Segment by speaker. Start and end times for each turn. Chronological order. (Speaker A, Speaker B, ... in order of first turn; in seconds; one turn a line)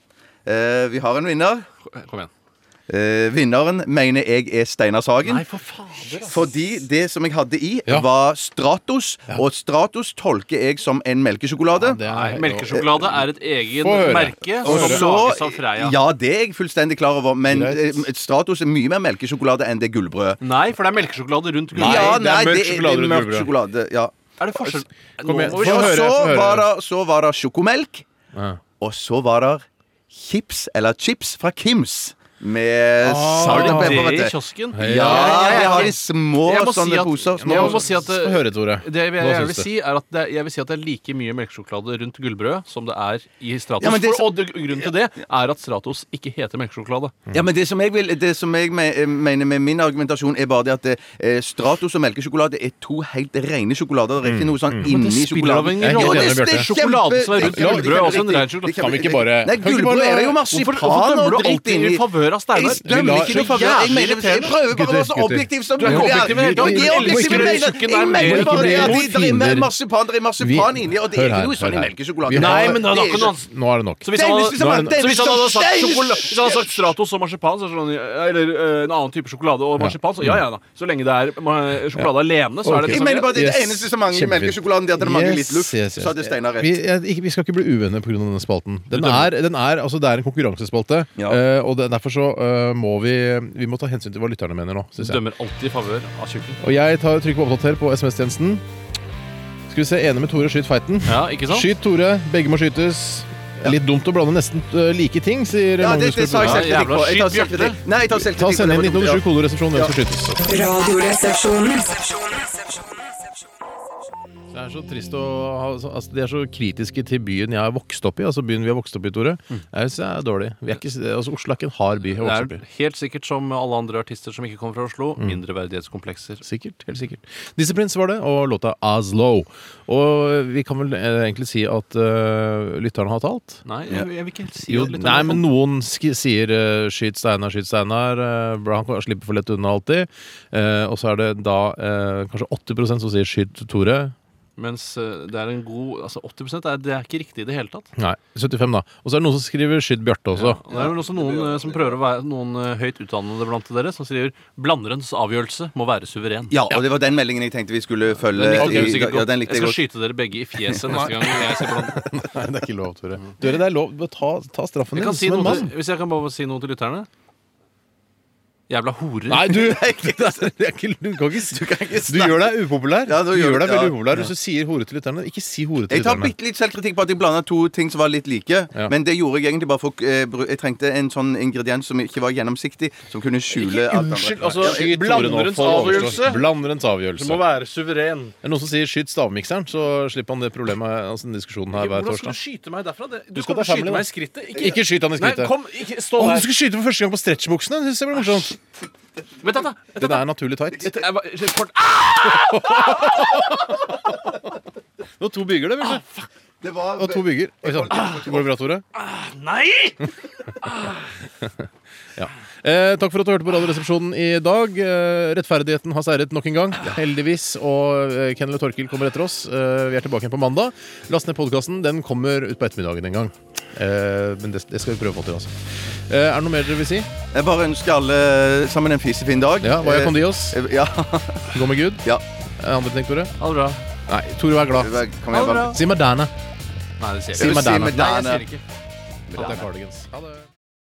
Speaker A: 0.4-1.6
Speaker B: 1.9-2.3
Speaker A: 2.9-5.4
Speaker B: 5.2-6.5
Speaker A: 6.2-12.0
Speaker C: 11.8-13.1
Speaker B: 12.0-16.0
Speaker C: 13.8-15.0
Speaker A: 14.6-20.4
Speaker C: 17.5-18.1
Speaker B: 20.4-22.2
Speaker A: 21.7-24.8
Speaker C: 21.8-23.5
Speaker B: 24.4-26.1
Speaker C: 25.2-26.7
Speaker A: 25.5-28.0
Speaker C: 28.3-28.6
Speaker A: 28.8-37.9
Speaker C: 33.0-34.0
Speaker B: 33.4-47.1
Speaker C: 34.7-35.9
Speaker C: 37.4-39.7
Speaker A: 43.8-44.9
Speaker A: 47.3-73.3
Speaker C: 54.2-54.9
Speaker B: 54.8-59.0
Speaker C: 55.8-56.7
Speaker C: 57.4-60.4
Speaker B: 60.5-64.5
Speaker C: 62.8-63.7
Speaker C: 64.6-69.7
Speaker B: 65.8-69.0
Speaker C: 70.4-75.0
Speaker B: 72.3-73.5
Speaker B: 74.0-83.4
Speaker A: 74.1-76.9
Speaker C: 79.8-80.4
Speaker C: 82.6-95.2
Speaker A: 82.7-86.8
Speaker B: 88.9-89.3
Speaker B: 95.0-96.6
Speaker C: 96.6-98.6
Speaker C: 99.7-106.8
Speaker B: 101.0-101.7
Speaker A: 105.8-109.9
Speaker B: 106.4-107.8
Speaker C: 108.3-110.4
Speaker D: 110.4-112.8
Speaker C: 114.5-122.6
Speaker B: 122.2-126.4
Speaker C: 126.4-133.6
Speaker B: 133.7-135.4
Speaker C: 134.7-144.1
Speaker B: 144.6-147.9
Speaker C: 148.0-150.6
Speaker B: 150.3-156.6
Speaker A: 150.7-152.0
Speaker A: 156.5-159.8
Speaker B: 158.3-162.0
Speaker C: 158.6-159.0
Speaker C: 160.9-165.7
Speaker B: 164.9-167.1
Speaker B: 168.7-169.5
Speaker C: 169.3-176.3
Speaker A: 169.5-170.5
Speaker A: 171.4-174.3
Speaker A: 175.9-186.3
Speaker B: 183.5-186.4
Speaker C: 184.3-187.4
Speaker B: 187.2-188.3
Speaker C: 188.4-192.4
Speaker B: 191.7-196.5
Speaker C: 193.3-195.5
Speaker C: 196.2-198.6
Speaker B: 199.4-203.8
Speaker C: 200.0-201.0
Speaker C: 202.5-203.7
Speaker C: 205.2-206.0
Speaker B: 205.8-206.3
Speaker A: 206.6-208.5
Speaker C: 207.0-208.8
Speaker B: 207.9-208.2
Speaker B: 208.9-210.0
Speaker B: 210.6-211.1
Speaker C: 212.2-225.5
Speaker C: 226.1-227.1
Speaker A: 227.3-232.2
Speaker C: 229.6-230.6
Speaker C: 231.5-232.0
Speaker C: 232.6-233.3
Speaker B: 233.4-233.8
Speaker C: 234.1-234.9
Speaker A: 234.7-235.8
Speaker B: 235.3-235.8
Speaker C: 235.7-236.3
Speaker B: 237.0-238.6
Speaker C: 237.4-238.1
Speaker A: 237.4-238.4
Speaker A: 239.3-239.6
Speaker C: 239.3-240.4